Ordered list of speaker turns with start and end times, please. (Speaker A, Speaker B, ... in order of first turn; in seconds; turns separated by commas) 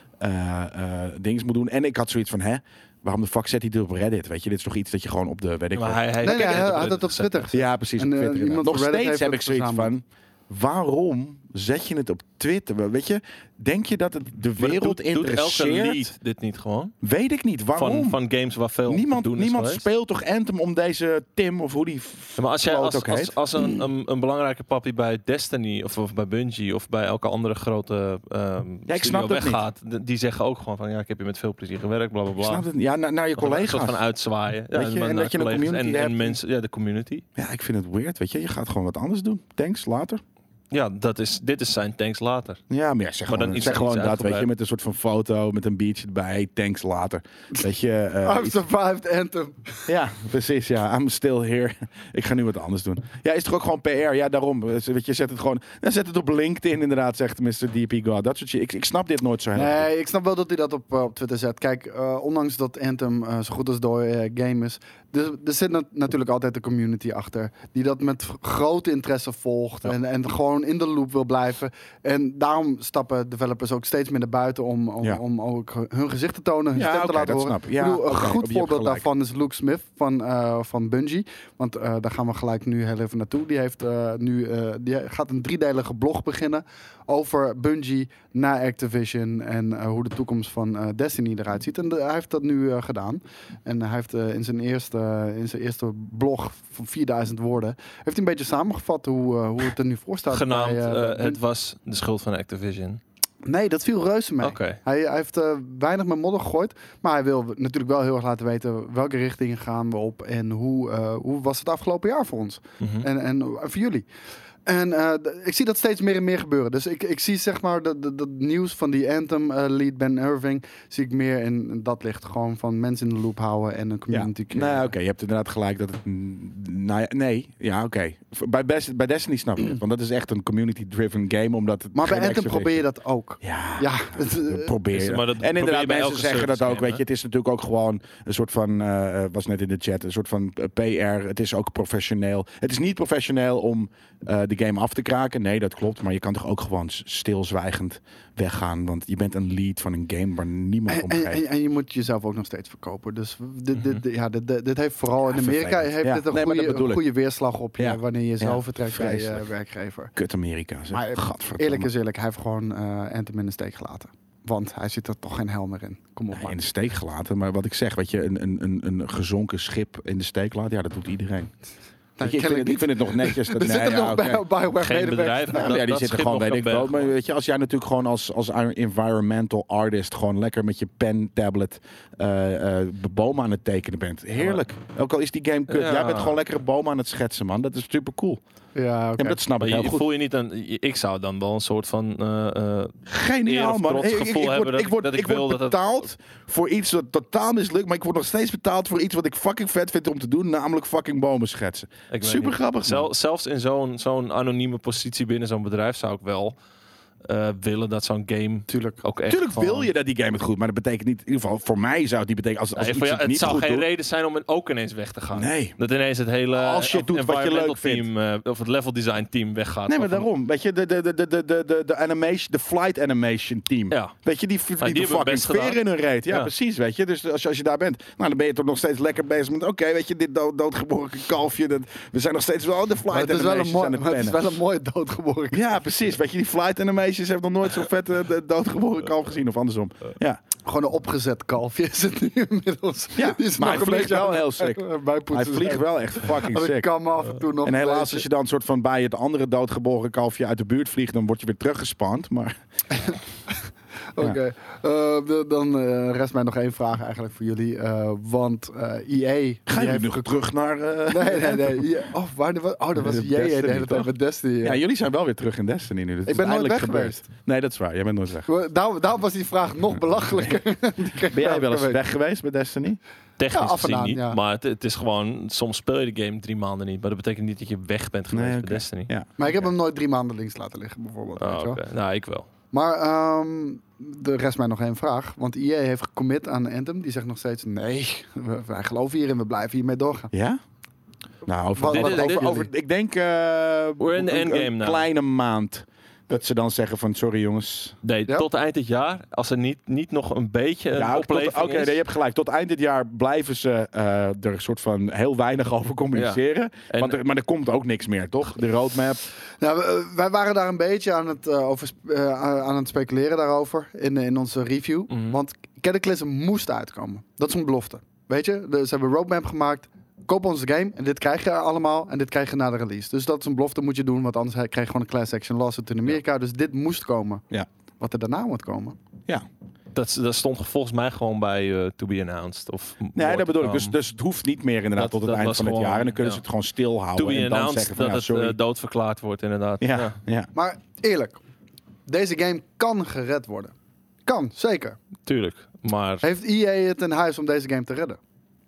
Speaker A: 0.2-6.7, Speaker B: 5.7-7.5, Speaker C: 6.2-9.9, Speaker A: 7.5-16.1, Speaker B: 14.6-16.9, Speaker A: 17.0-18.2, Speaker B: 17.8-19.8, Speaker A: 18.9-23.4, Speaker B: 22.4-32.6, Speaker A: 28.9-29.6, Speaker A: 32.4-34.0, Speaker B: 33.4-37.2, Speaker A: 34.7-36.4, Speaker A: 37.4-40.2, Speaker B: 40.7-42.6, Speaker A: 42.7-48.6, Speaker B: 43.3-44.5, Speaker C: 48.2-49.9, Speaker A: 49.9-59.9, Speaker C: 59.5-101.4, Speaker A: 76.7-79.0, Speaker B: 100.3-103.0, Speaker C: 103.4-114.0, Speaker B: 104.4-104.8, Speaker B: 112.8-113.1, Speaker C: 114.7-124.9, Speaker A: 124.1-132.8, Speaker C: 131.9-134.7, Speaker A: 133.4-151.4, Speaker B: 134.9-137.0, Speaker C: 150.9-160.1, Speaker A: 155.2-157.0, Speaker A: 157.8-159.4, Speaker A: 160.1-161.9, Speaker C: 160.9-166.6, Speaker A: 166.3-171.5, Speaker C: 172.2-175.8, Speaker A: 172.2-174.4, Speaker B: 174.8-177.1, Speaker A: 175.5-188.4, Speaker B: 185.7-186.3, Speaker C: 188.7-189.4, Speaker A: 189.2-190.0, Speaker B: 189.6-192.9, Speaker A: 193.1-203.1, Speaker B: 193.4-195.9, Speaker B: 202.1-206.5, Speaker B: 207.2-209.9, Speaker C: 208.7-209.0, Speaker A: 209.3-213.8, Speaker B: 212.8-220.3, Speaker A: 215.3-215.7, Speaker A: 216.5-218.1, Speaker A: 219.9-234.4, Speaker B: 224.8-226.5, Speaker C: 233.1-235.6, Speaker A: 235.5-240.4, Speaker C: 240.6-248.2, Speaker A: 243.2-246.9, Speaker A: 247.6-252.6, Speaker C: 252.9-253.5, Speaker C: 254.2-260.4, Speaker A: 259.7-261.9, Speaker C: 261.1-264.8, Speaker A: 262.9-264.1, Speaker A: 264.6-268.5, Speaker C: 266.2-267.2, Speaker C: 268.5-272.0, Speaker A: 271.3-273.0, Speaker B: 273.4-279.1, Speaker C: 273.5-274.4, Speaker A: 278.3-279.3, Speaker C: 279.4-281.8, Speaker B: 281.4-282.5, Speaker C: 282.7-290.3, Speaker A: 290.3-290.6, Speaker A: 291.4-297.9, Speaker C: 291.8-292.7, Speaker B: 291.9-292.6, Speaker B: 294.0-295.1, Speaker B: 298.0-302.0, Speaker A: 300.9-309.2, Speaker B: 306.1-307.2, Speaker C: 309.6-327.4, Speaker B: 315.1-315.4, Speaker C: 328.0-329.0, Speaker B: 329.9-333.9, Speaker A: 333.1-338.6, Speaker B: 335.0-336.4, Speaker B: 337.1-340.1, Speaker A: 339.8-340.5, Speaker C: 340.5-341.4, Speaker C: 342.1-343.7, Speaker C: 344.2-345.0, Speaker B: 345.2-346.2, Speaker C: 346.2-348.2